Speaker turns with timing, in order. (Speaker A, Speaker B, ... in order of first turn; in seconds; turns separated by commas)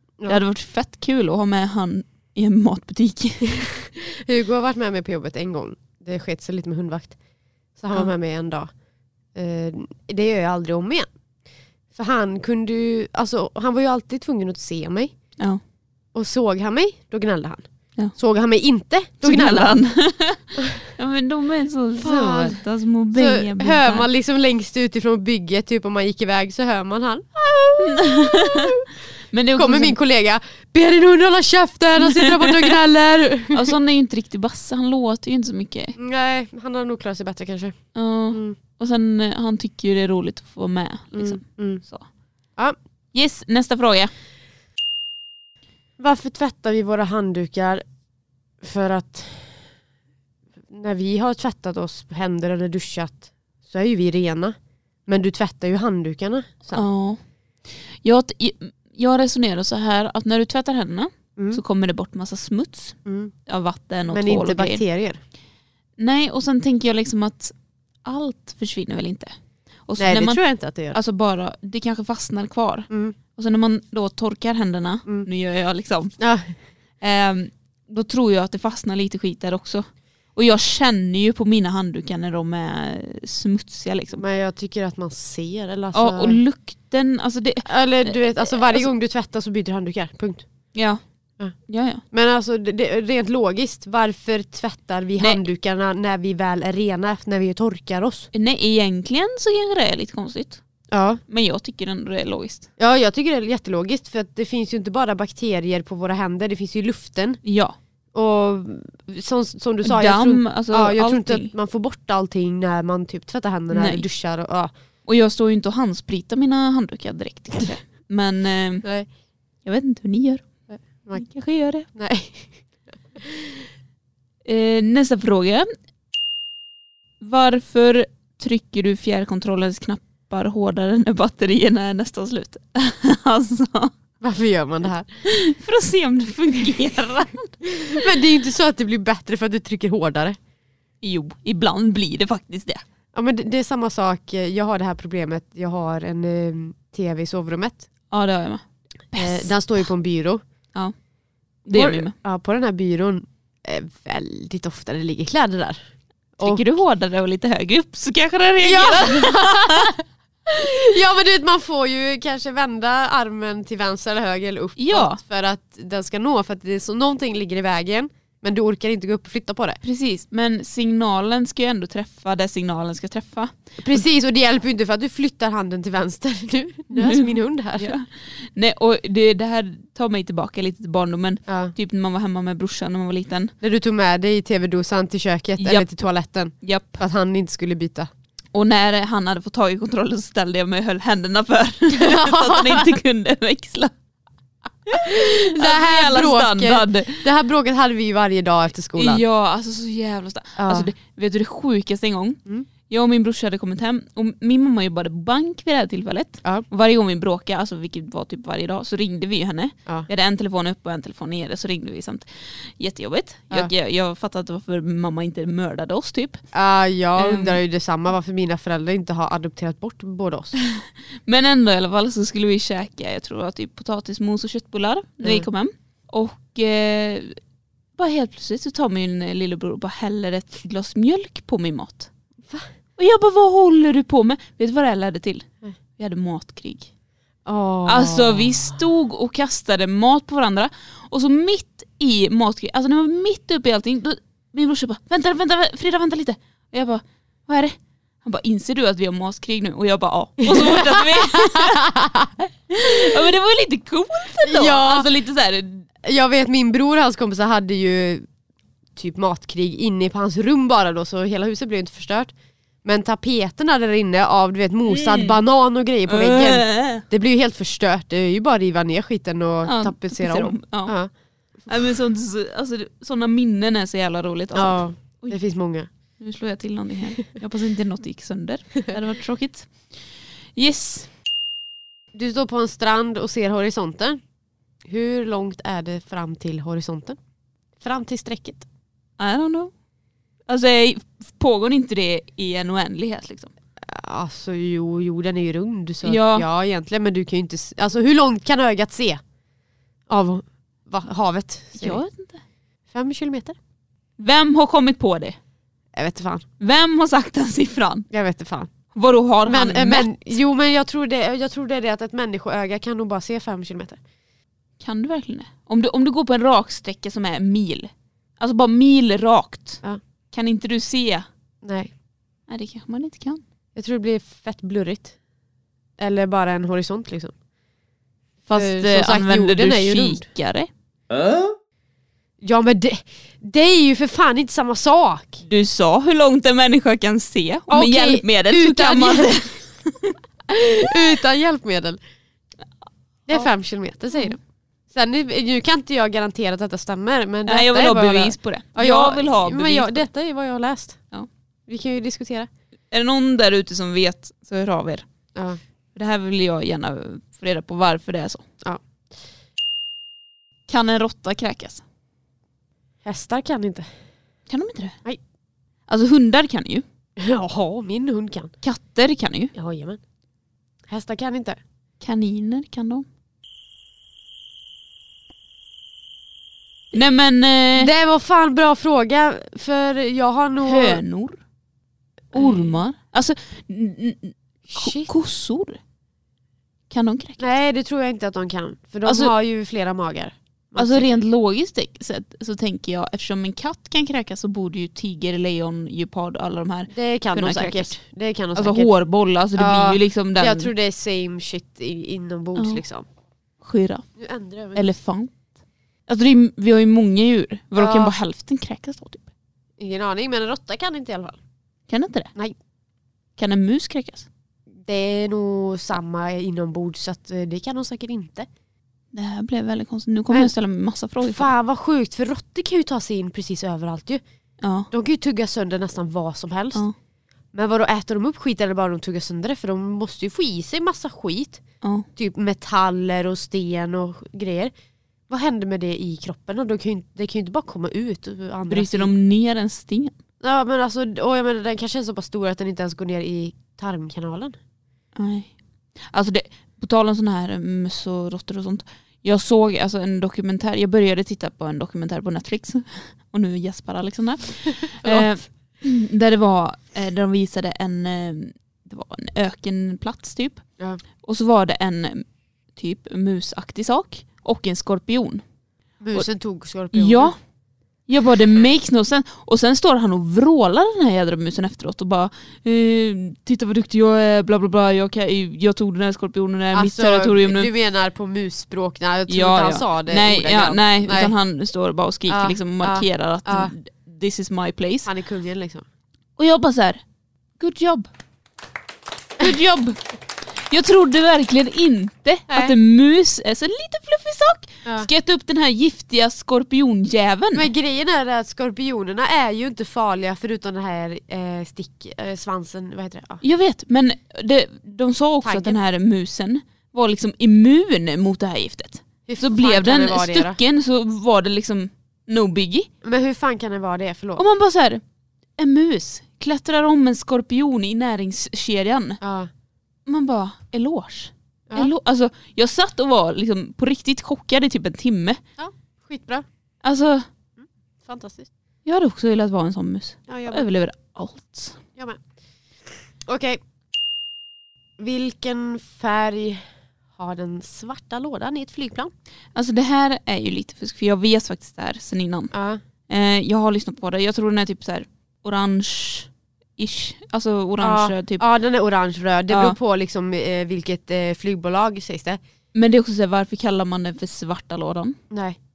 Speaker A: 0.2-3.7, Speaker B: 3.6-7.2, Speaker B: 7.7-8.7, Speaker B: 9.3-11.1, Speaker B: 11.9-15.1, Speaker B: 16.1-19.8, Speaker A: 19.2-24.1, Speaker B: 20.6-20.9, Speaker B: 22.0-22.6, Speaker B: 23.1-28.9, Speaker A: 27.8-30.0, Speaker B: 29.6-33.7, Speaker A: 32.0-32.7, Speaker A: 33.5-36.0, Speaker B: 36.0-37.8, Speaker A: 37.9-42.0, Speaker B: 38.3-38.6, Speaker B: 41.1-41.8, Speaker A: 43.1-44.1, Speaker B: 46.0-47.8, Speaker B: 48.6-49.7, Speaker B: 50.7-54.5, Speaker B: 55.0-56.9, Speaker A: 56.7-64.8, Speaker B: 63.0-63.3, Speaker B: 64.1-65.2, Speaker A: 66.0-69.3, Speaker A: 69.9-70.4, Speaker B: 70.0-71.0, Speaker A: 70.9-76.1, Speaker B: 72.9-73.2, Speaker B: 76.2-76.5, Speaker A: 77.0-84.2, Speaker B: 84.1-86.4, Speaker A: 85.9-88.9, Speaker B: 87.6-90.4, Speaker A: 90.7-91.0, Speaker A: 91.7-92.0, Speaker B: 92.1-98.3, Speaker A: 98.3-100.6, Speaker B: 100.9-101.2, Speaker A: 101.3-102.7, Speaker B: 102.8-107.4, Speaker A: 107.4-107.8, Speaker B: 108.1-114.7, Speaker A: 109.8-111.5, Speaker A: 113.7-114.0, Speaker A: 115.0-118.8, Speaker A: 119.6-120.5, Speaker B: 120.7-121.2, Speaker A: 121.2-121.9, Speaker B: 121.9-122.5, Speaker B: 123.1-123.7, Speaker A: 124.4-125.7, Speaker A: 127.2-133.9, Speaker B: 134.2-135.1, Speaker A: 135.2-138.1, Speaker B: 137.7-140.4, Speaker A: 141.0-142.8, Speaker B: 143.1-147.9, Speaker A: 148.1-149.8, Speaker B: 149.1-150.4, Speaker A: 151.7-152.1, Speaker B: 151.7-155.8, Speaker B: 156.4-156.6, Speaker A: 156.4-159.9, Speaker B: 158.6-169.8, Speaker A: 164.8-165.2, Speaker A: 169.8-174.0, Speaker B: 173.8-177.9, Speaker A: 176.9-183.5, Speaker B: 181.5-181.7, Speaker B: 183.6-188.1, Speaker A: 185.6-185.9, Speaker A: 186.6-187.0, Speaker A: 188.5-193.9, Speaker B: 191.9-192.9, Speaker A: 194.9-197.2, Speaker B: 194.9-199.2, Speaker A: 198.9-216.4, Speaker B: 200.6-200.9, Speaker B: 216.5-220.6, Speaker A: 217.2-217.6, Speaker A: 220.6-227.4, Speaker A: 227.9-232.1, Speaker A: 233.0-236.9, Speaker B: 237.4-238.8, Speaker A: 237.8-251.9, Speaker B: 250.4-253.0, Speaker A: 252.7-255.9, Speaker B: 254.4-255.1, Speaker B: 256.0-258.2, Speaker B: 258.9-262.3, Speaker B: 262.8-271.1, Speaker A: 264.9-265.4, Speaker A: 266.1-267.0, Speaker A: 269.6-270.9, Speaker A: 271.7-275.4, Speaker B: 274.5-275.9, Speaker A: 276.2-279.7, Speaker A: 280.5-281.1, Speaker B: 282.1-284.2, Speaker B: 284.8-287.2, Speaker B: 287.8-288.6, Speaker A: 289.2-289.7, Speaker A: 290.5-293.5, Speaker B: 293.8-299.2, Speaker A: 296.0-296.4, Speaker B: 300.1-302.0, Speaker A: 301.7-302.4, Speaker B: 302.9-303.6, Speaker A: 304.2-305.4, Speaker B: 305.9-306.4, Speaker A: 306.6-308.1, Speaker B: 308.1-308.7, Speaker A: 308.9-310.1, Speaker B: 309.4-314.0, Speaker A: 314.8-321.2, Speaker B: 321.6-321.9, Speaker A: 322.5-323.4, Speaker B: 323.8-325.1, Speaker B: 326.0-327.3, Speaker A: 328.5-330.7, Speaker B: 328.5-330.2, Speaker B: 332.4-335.4, Speaker A: 335.4-340.1, Speaker B: 337.7-339.5, Speaker B: 340.5-342.0, Speaker B: 343.3-344.4, Speaker B: 344.9-351.0, Speaker A: 347.4-350.1, Speaker B: 351.7-352.5, Speaker A: 352.9-355.0, Speaker A: 355.9-358.4, Speaker A: 360.7-361.8, Speaker B: 363.0-363.9, Speaker A: 364.5-365.0, Speaker A: 365.9-366.8, Speaker B: 367.2-368.5, Speaker A: 368.6-369.5, Speaker B: 369.5-370.0, Speaker B: 370.9-371.6, Speaker A: 372.0-373.1, Speaker A: 376.9-377.9, Speaker B: 377.8-381.0, Speaker A: 380.6-381.4, Speaker B: 382.3-382.8, Speaker A: 382.3-385.8, Speaker B: 384.7-385.1, Speaker A: 386.9-387.5, Speaker B: 387.4-391.2, Speaker A: 389.0-389.3, Speaker A: 390.8-397.9, Speaker B: 396.9-398.9, Speaker A: 398.5-400.7, Speaker B: 399.6-403.1, Speaker A: 402.6-402.8, Speaker A: 403.6-404.1, Speaker B: 404.2-404.9, Speaker A: 404.7-405.3, Speaker A: 406.1-409.3, Speaker B: 407.8-408.1, Speaker B: 409.8-411.4, Speaker A: 411.9-412.3, Speaker A: 413.4-414.3, Speaker B: 414.8-418.5, Speaker A: 419.1-421.5, Speaker B: 421.2-424.2, Speaker A: 424.6-424.9, Speaker B: 424.9-426.8, Speaker B: 427.5-431.6, Speaker A: 431.8-432.1, Speaker B: 432.1-434.7, Speaker B: 435.3-439.1, Speaker A: 438.7-440.1, Speaker B: 440.4-444.6, Speaker A: 445.1-460.6, Speaker B: 454.7-455.3, Speaker A: 461.2-465.4, Speaker B: 466.0-467.3, Speaker A: 466.9-467.4, Speaker A: 468.1-477.7, Speaker B: 476.7-481.3, Speaker A: 479.3-485.1, Speaker B: 482.3-483.7, Speaker B: 485.0-485.8, Speaker A: 486.4-487.0, Speaker A: 487.6-488.1, Speaker A: 489.4-490.0, Speaker A: 490.6-497.7, Speaker B: 492.5-492.7, Speaker B: 497.5-503.4, Speaker A: 503.4-512.9, Speaker B: 505.4-505.8, Speaker B: 509.2-510.6, Speaker B: 513.0-514.4, Speaker A: 514.4-515.0, Speaker A: 515.6-519.2, Speaker B: 519.2-519.5, Speaker A: 520.0-525.4, Speaker B: 525.6-526.4, Speaker A: 526.8-527.2, Speaker B: 527.6-528.5, Speaker A: 528.8-531.8, Speaker B: 530.3-530.6, Speaker B: 533.2-533.6, Speaker B: 535.0-536.6, Speaker B: 537.1-539.1, Speaker A: 539.5-542.5, Speaker B: 542.5-542.8, Speaker A: 543.1-548.4, Speaker B: 547.8-552.4, Speaker A: 549.5-549.8, Speaker A: 552.7-555.2, Speaker B: 555.3-555.6